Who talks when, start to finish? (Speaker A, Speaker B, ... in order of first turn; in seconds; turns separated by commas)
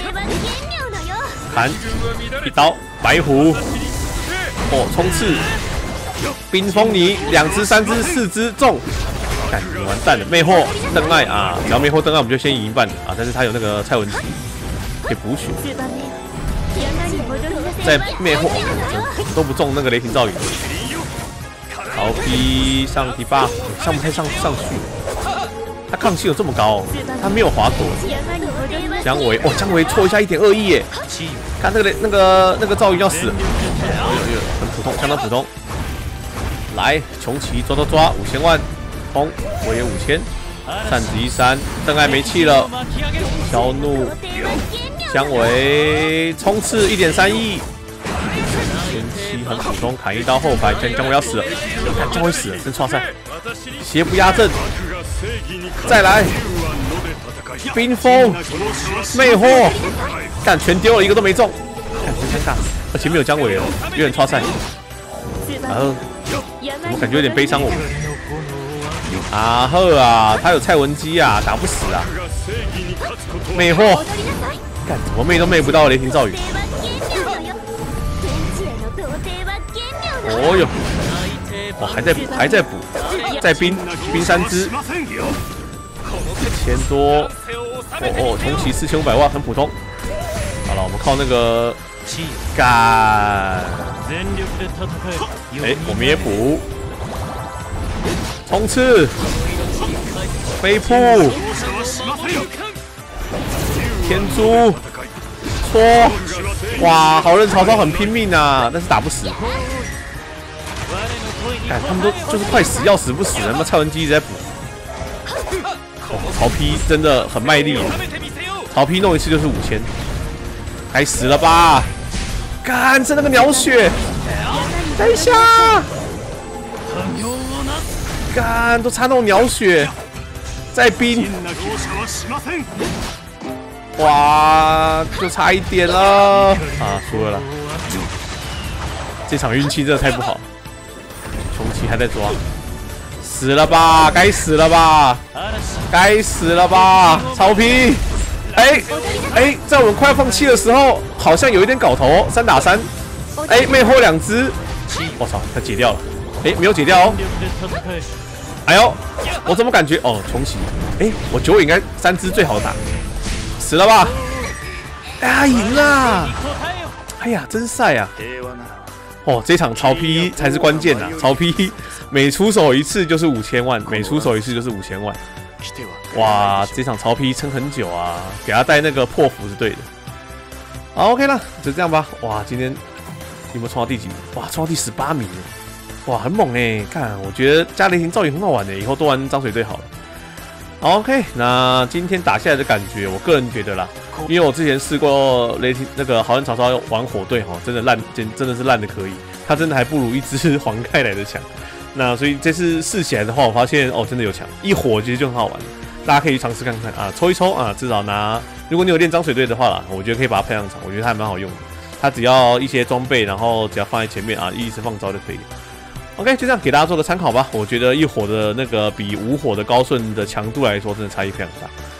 Speaker A: 1.5-1.8, Speaker A: 2.4-3.8, Speaker A: 4.7-5.5, Speaker A: 6.5-8.8, Speaker A: 9.5-14.4, Speaker A: 15.1-15.7, Speaker A: 17.8-20.6, Speaker A: 21.9-24.9, Speaker A: 25.9-28.1, Speaker A: 29.0-30.9, Speaker A: 31.6-35.5, Speaker A: 36.7-40.3, Speaker A: 40.8-42.7, Speaker A: 43.4-44.2, Speaker A: 45.0-47.7, Speaker A: 48.7-53.1, Speaker A: 53.8-54.6, Speaker A: 55.8-56.4, Speaker A: 57.6-58.5, Speaker A: 59.1-59.8, Speaker A: 60.4-64.5, Speaker A: 65.5-66.1, Speaker A: 66.8-67.9, Speaker A: 69.2-72.2, Speaker A: 73.5-74.2, Speaker A: 74.8-76.4, Speaker A: 80.2-80.9, Speaker A: 81.8-84.8, Speaker A: 86.3-87.3, Speaker A: 88.0-89.8, Speaker A: 90.6-91.8, Speaker A: 92.5-94.1, Speaker A: 95.6-96.7, Speaker A: 98.5-99.2, Speaker A: 100.6-101.5, Speaker A: 104.0-104.8, Speaker A: 105.6-109.4, Speaker A: 111.7-114.5, Speaker A: 116.1-118.0, Speaker A: 118.7-119.9, Speaker A: 120.9-121.9, Speaker A: 122.6-124.0, Speaker A: 124.8-125.9, Speaker A: 128.3-129.9, Speaker A: 130.7-131.4, Speaker A: 133.9-137.5, Speaker A: 139.3-140.4, Speaker A: 141.5-142.4, Speaker A: 143.2-145.2, Speaker A: 145.9-152.9, Speaker A: 153.4-154.6, Speaker A: 155.2-157.2, Speaker A: 158.7-162.8, Speaker A: 163.6-164.2, Speaker A: 165.2-166.4, Speaker A: 167.2-168.1, Speaker A: 169.2-175.2, Speaker A: 176.1-179.9, Speaker A: 180.9-182.8, Speaker A: 183.5-185.5, Speaker A: 186.1-189.9, Speaker A: 190.8-215.4, Speaker A: 216.2-221.7